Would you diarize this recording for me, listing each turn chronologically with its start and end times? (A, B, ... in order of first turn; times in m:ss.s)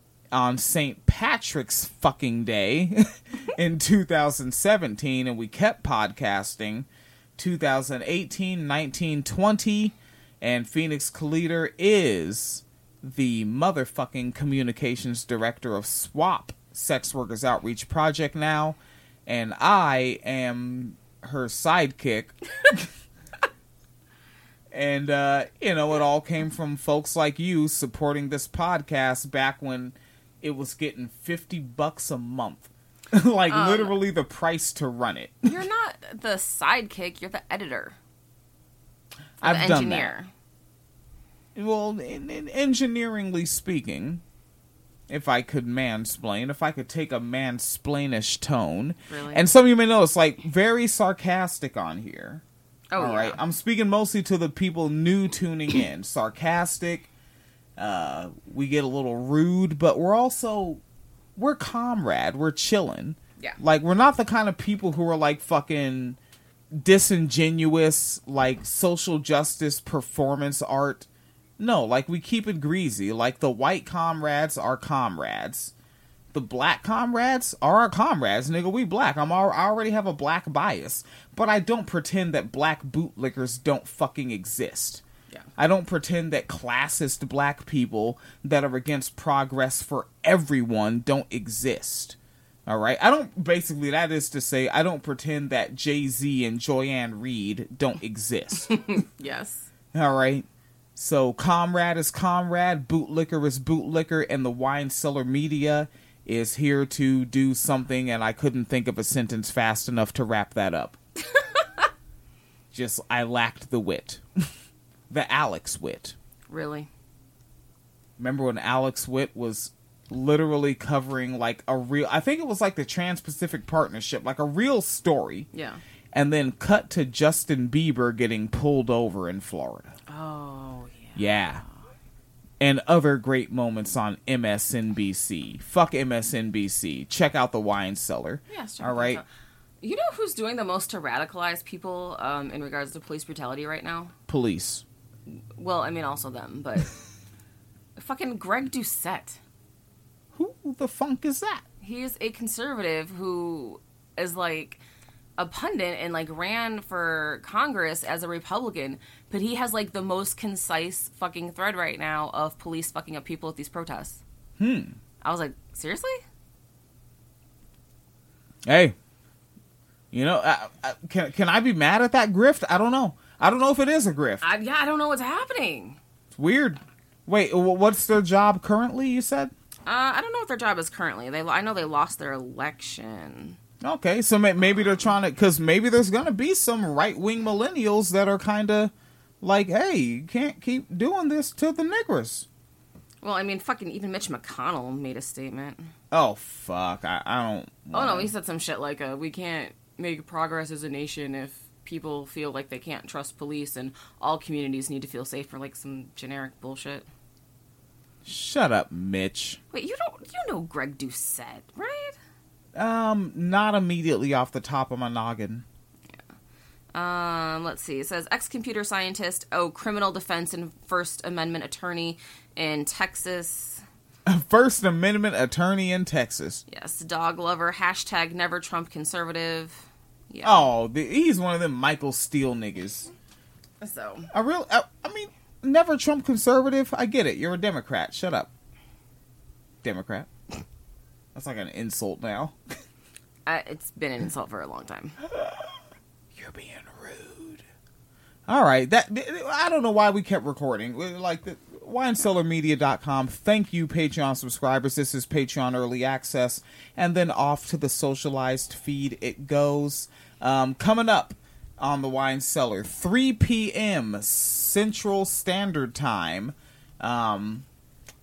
0:00.3-0:22.4 A
0:24.7-0:35.6 A
0:33.5-0:34.0 B
0:35.4-0:38.0 B
0:39.4-0:40.3 B
0:39.4-0:40.1 A
0:41.5-0:44.2 A
0:45.1-0:52.4 A
0:49.1-0:49.4 B
0:52.9-0:53.4 B
0:53.0-0:57.1 A
0:57.8-1:00.8 A
1:01.4-1:06.2 A
1:06.7-1:11.1 A
1:11.6-1:15.7 A
1:16.3-1:25.0 A
1:25.6-1:38.8 A
1:38.7-1:39.7 B
1:39.9-1:51.0 A
1:52.7-1:54.2 A
1:55.1-1:56.1 A
1:56.5-1:56.9 B
1:58.2-2:05.5 A
2:05.5-2:05.8 B
2:06.1-2:10.0 A
2:10.1-2:11.7 B
2:11.2-2:11.6 A
2:12.6-2:19.2 A
2:18.5-2:19.2 B
2:19.8-2:24.1 B
2:24.3-2:24.8 A
2:25.3-2:26.9 B
2:28.0-2:29.4 B
2:30.3-2:31.6 A
2:31.8-2:34.8 B
2:35.4-2:44.2 B
2:44.6-2:45.0 A
2:45.2-2:46.2 B
2:48.6-2:48.9 A
2:50.1-2:54.4 A
2:54.4-2:56.0 B
2:56.3-2:59.5 A
2:59.8-3:03.6 B
3:03.8-3:12.4 A
3:13.2-3:15.9 B
3:16.1-3:18.3 A
3:17.9-3:27.0 B
3:28.2-3:29.6 A
3:29.7-3:32.2 B
3:32.7-3:35.6 A
3:36.9-3:43.8 B
3:44.2-3:46.6 A
3:46.7-3:50.7 B
3:50.4-3:53.1 A
3:53.8-3:54.3 B
3:54.3-3:58.5 A
3:59.8-4:00.3 A
4:01.3-4:02.5 A
4:03.4-4:05.2 B
4:06.3-4:07.6 A
4:08.5-4:27.6 A